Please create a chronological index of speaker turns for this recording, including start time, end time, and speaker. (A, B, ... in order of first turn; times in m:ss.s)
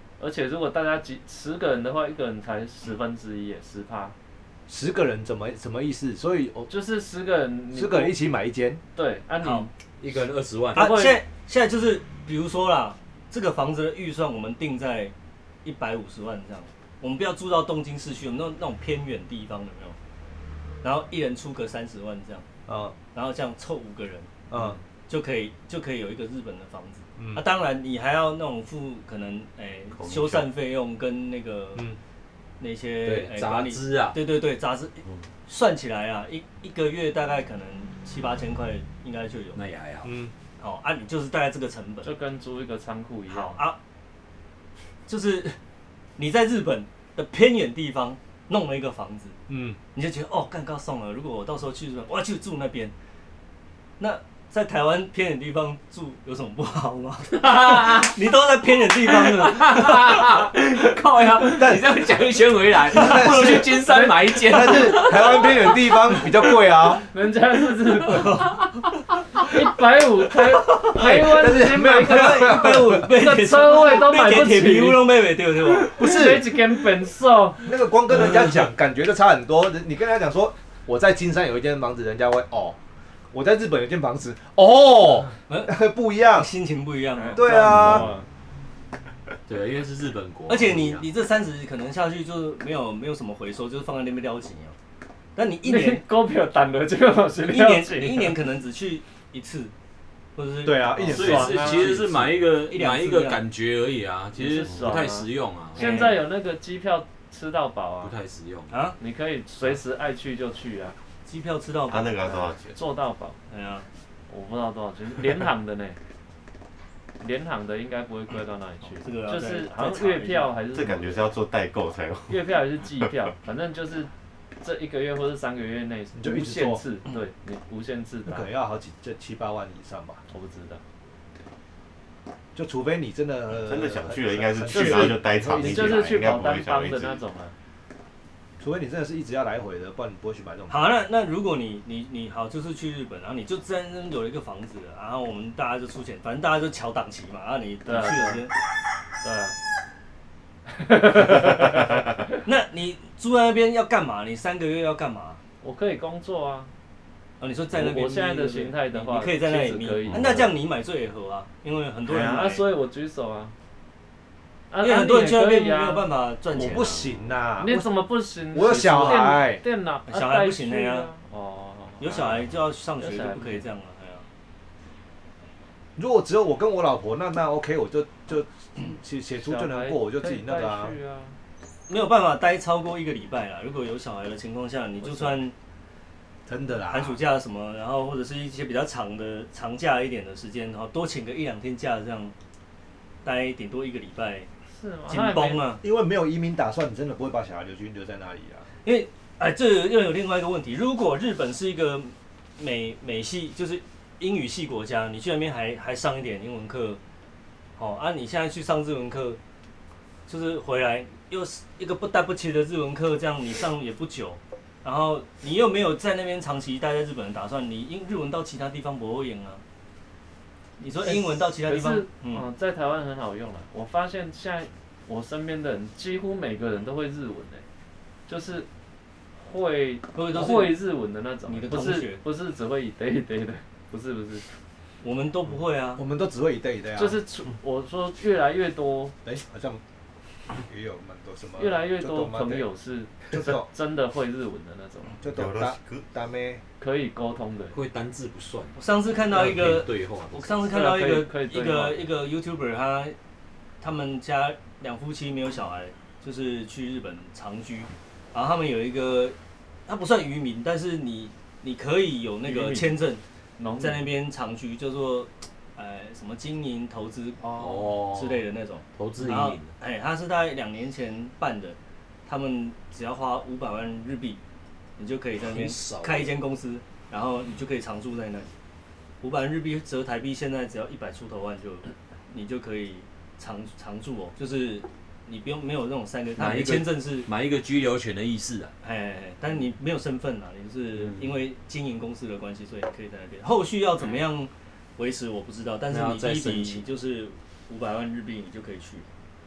0:00.2-0:04.1 A
0:04.7-0:06.7 B
0:06.7-0:08.1 A
0:07.7-0:08.8 B
0:09.0-0:09.7 A
0:09.4-0:09.7 C
0:10.0-0:10.9 D
0:10.8-0:11.2 A
0:10.8-0:15.1 C
0:15.6-0:20.0 C
0:20.8-0:22.5 C
0:22.7-0:23.0 B
0:23.1-0:31.9 C
0:24.5-0:24.8 B
0:27.2-0:27.4 B
0:30.0-0:30.3 E
0:32.6-0:39.6 C
0:33.0-0:34.2 D
0:39.6-0:40.1 D
0:40.0-0:40.3 B
0:40.6-0:42.1 C
0:42.0-0:43.6 A
0:43.3-0:43.8 C
0:45.1-0:45.6 C
0:46.2-0:49.4 C
0:49.5-0:49.8 B
0:49.9-0:52.9 C
0:54.0-1:00.5 C
0:57.3-0:58.2 D
0:59.0-1:06.6 D
1:01.5-1:02.0 B
1:02.9-1:03.8 B
1:03.8-1:05.0 A
1:04.4-1:07.0 B
1:07.1-1:08.5 A
1:08.0-1:08.8 C
1:08.1-1:08.7 D
1:09.4-1:15.1 A
1:10.9-1:13.1 B
1:11.0-1:16.1 C
1:15.9-1:17.7 A
1:16.0-1:16.5 B
1:17.6-1:22.8 B
1:23.3-1:26.5 B
1:25.5-1:25.8 C
1:26.3-1:28.1 C
1:27.2-1:28.3 A
1:27.4-1:28.1 B
1:29.5-1:31.0 D
1:30.5-1:34.8 C
1:35.4-1:36.0 C
1:35.6-1:38.4 A
1:37.4-1:39.7 C
1:40.4-1:43.4 C
1:40.6-1:41.6 B
1:41.0-1:42.0 A
1:41.1-1:46.1 D
1:44.4-1:48.1 A
1:45.8-1:46.2 C
1:48.0-1:48.7 D
1:48.7-1:49.0 C
1:49.0-1:51.0 A
1:51.3-1:52.5 C
1:51.9-1:52.8 E
1:52.7-1:53.4 A
1:53.5-1:53.9 C
1:54.3-1:56.0 A
1:57.2-2:01.3 A
1:59.0-2:00.5 C
2:00.7-2:03.1 E
2:02.3-2:08.5 A
2:06.2-2:06.8 B
2:08.3-2:10.2 B
2:10.3-2:10.8 A
2:12.6-2:16.3 B
2:13.6-2:17.2 E
2:14.7-2:17.5 A
2:18.6-2:20.8 B
2:20.7-2:28.5 C
2:27.8-2:28.5 A
2:29.2-2:29.6 A
2:30.8-2:32.0 A
2:32.4-2:35.4 C
2:35.6-2:36.7 A
2:37.4-2:42.6 C
2:37.7-2:40.5 A
2:42.1-2:43.5 A
2:44.7-2:46.1 A
2:44.8-2:47.1 C
2:46.5-2:47.9 B
2:47.6-2:52.5 A
2:48.5-2:49.6 B
2:50.1-2:51.1 C
2:52.0-2:54.3 C
2:53.0-2:53.7 A
2:56.0-3:01.0 B
2:59.4-3:01.4 A
3:01.9-3:05.5 C
3:05.1-3:05.4 A
3:06.5-3:07.2 B
3:06.9-3:12.4 C
3:13.2-3:14.5 C
3:14.7-3:15.8 A
3:15.1-3:15.8 C
3:15.8-3:18.7 B
3:18.8-3:27.0 C
3:27.8-3:29.4 C
3:30.3-3:39.6 C
3:40.8-3:42.5 C
3:41.0-3:47.6 A
3:48.3-3:48.7 A
3:49.4-3:54.5 A
3:50.1-3:50.8 C
3:51.5-3:52.2 C
3:55.0-3:56.0 C
3:56.0-3:57.2 B
3:57.0-3:59.2 A
3:59.2-3:59.8 B
4:00.6-4:02.6 B
4:01.6-4:05.2 A
4:03.3-4:03.7 B
4:05.2-4:06.6 B
4:05.3-4:06.0 E
4:06.8-4:07.8 A
4:07.7-4:08.8 D
4:08.8-4:13.2 C
4:09.3-4:10.6 D
4:10.6-4:12.1 A
4:13.8-4:19.4 C
4:19.9-4:23.2 C
4:22.4-4:23.0 A
4:23.6-4:24.1 A
4:23.8-4:34.4 C
4:27.4-4:27.9 A
4:27.5-4:28.4 D
4:29.0-4:29.7 D
4:35.0-4:38.5 C
4:35.4-4:36.3 D
4:39.2-4:47.3 C
4:46.4-4:48.7 D
4:48.8-4:59.1 C
4:51.0-4:51.3 D
4:55.9-4:56.9 D